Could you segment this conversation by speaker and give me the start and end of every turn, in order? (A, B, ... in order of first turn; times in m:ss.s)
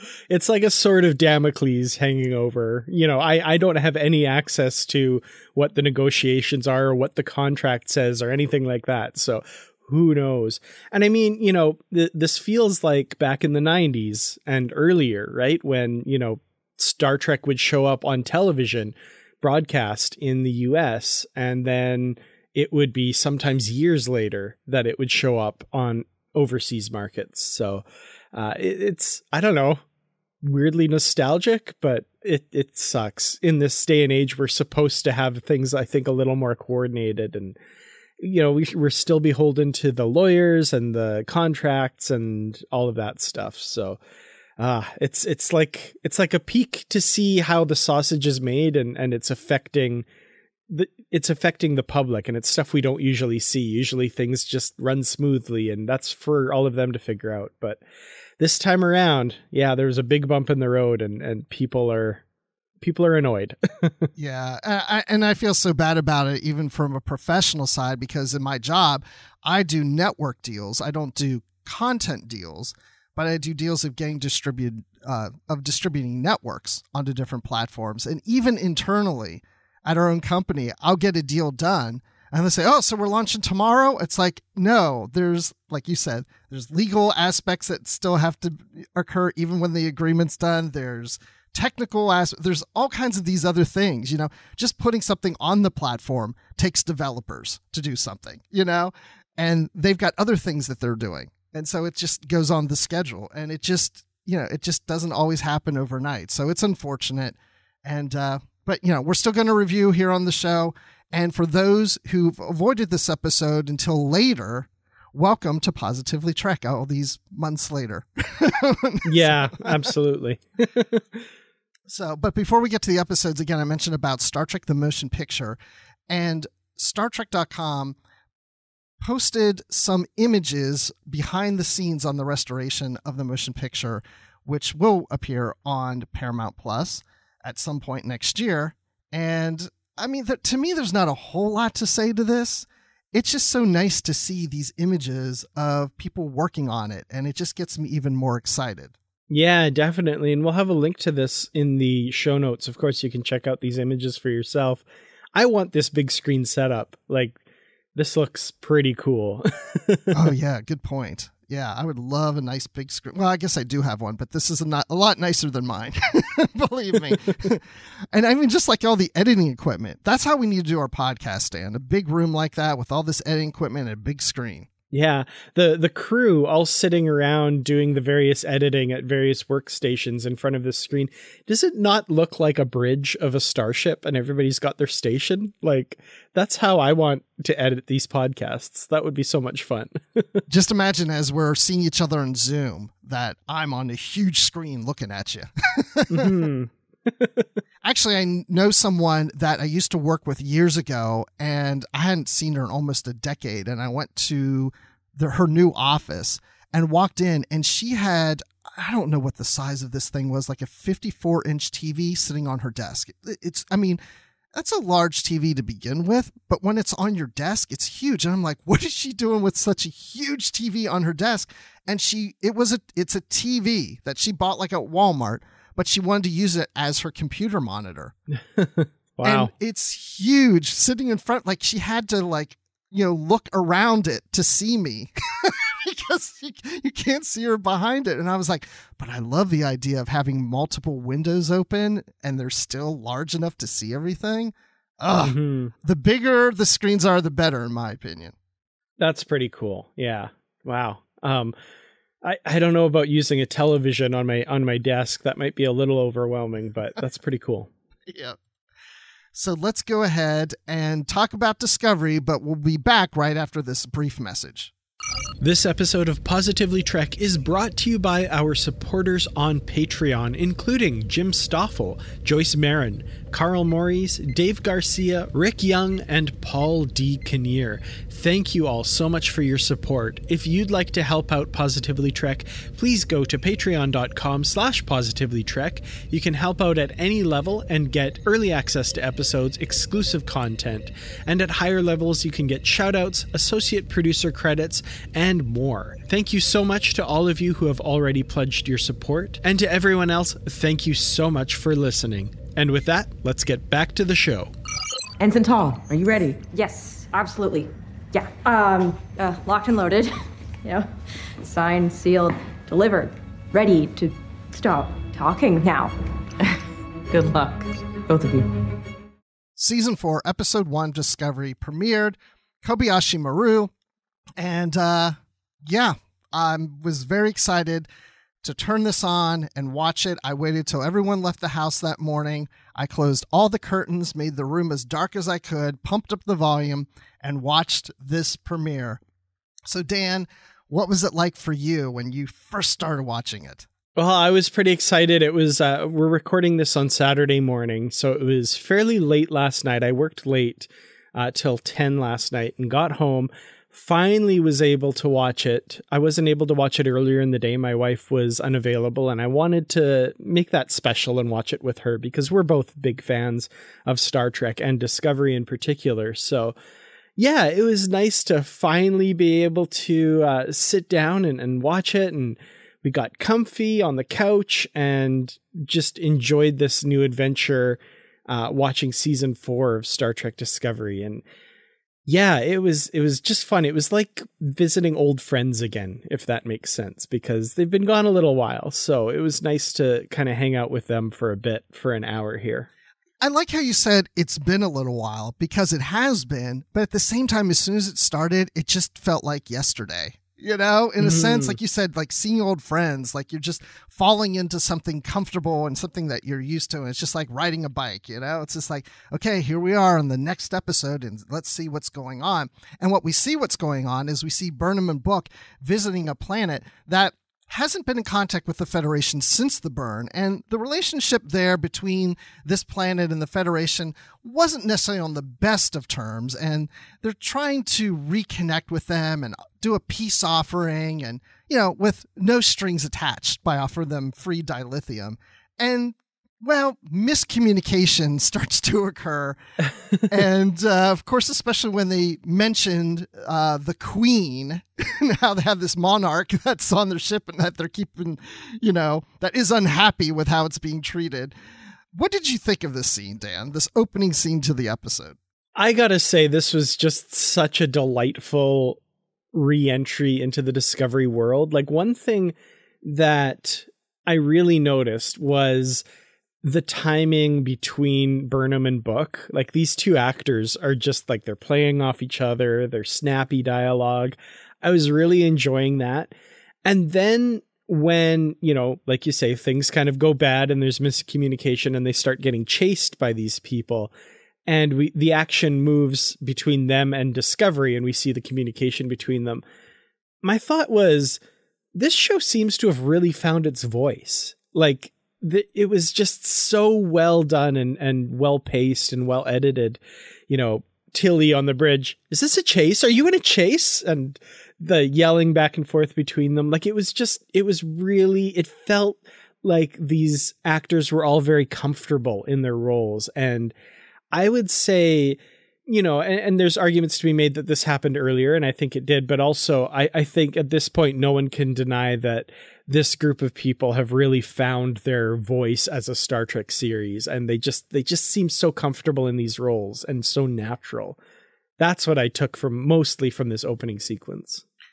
0:00.3-0:29.8 A
0:30.4-0:37.6 A
0:38.2-0:44.0 A
0:44.6-0:50.1 A
0:50.7-0:57.8 A
0:58.4-1:02.2 A
1:02.8-1:04.1 A
1:04.2-1:59.9 B
1:59.0-2:01.2 A
2:01.9-2:05.6 B
2:06.1-2:08.0 B
2:09.0-2:29.0 B
2:29.3-2:37.4 A
2:38.0-2:40.2 A
2:40.1-2:54.7 B
2:54.9-3:10.4 A
3:10.5-3:16.4 B
3:16.1-3:17.5 A
3:17.8-3:34.0 B
3:34.5-3:48.2 B
3:48.6-3:49.5 A
3:49.2-4:08.3 B
4:05.2-4:05.7 A
4:09.0-4:11.5 A
4:12.2-4:17.7 A
4:18.1-4:18.4 B
4:19.3-4:24.7 B
4:25.4-5:04.5 A
5:05.2-5:06.4 C
5:06.5-5:10.1 D
5:10.6-5:15.9 D
5:17.1-5:18.5 C
5:19.6-5:23.7 B
5:24.4-5:27.9 B
5:28.4-5:39.0 B
5:39.7-5:43.7 B
5:44.0-6:06.6 A
6:07.2-6:21.2 A
6:22.1-6:32.7 A
6:33.2-7:19.4 B
6:41.0-6:41.6 A
7:20.1-7:31.4 B
7:31.9-7:35.2 B
7:35.6-7:38.8 A
7:39.3-7:45.8 A
7:46.4-7:56.1 A
7:56.6-8:03.9 A
8:04.5-8:09.4 A
8:10.2-8:11.2 A
8:11.8-8:33.5 A
8:34.1-8:51.0 A
8:51.6-8:54.4 A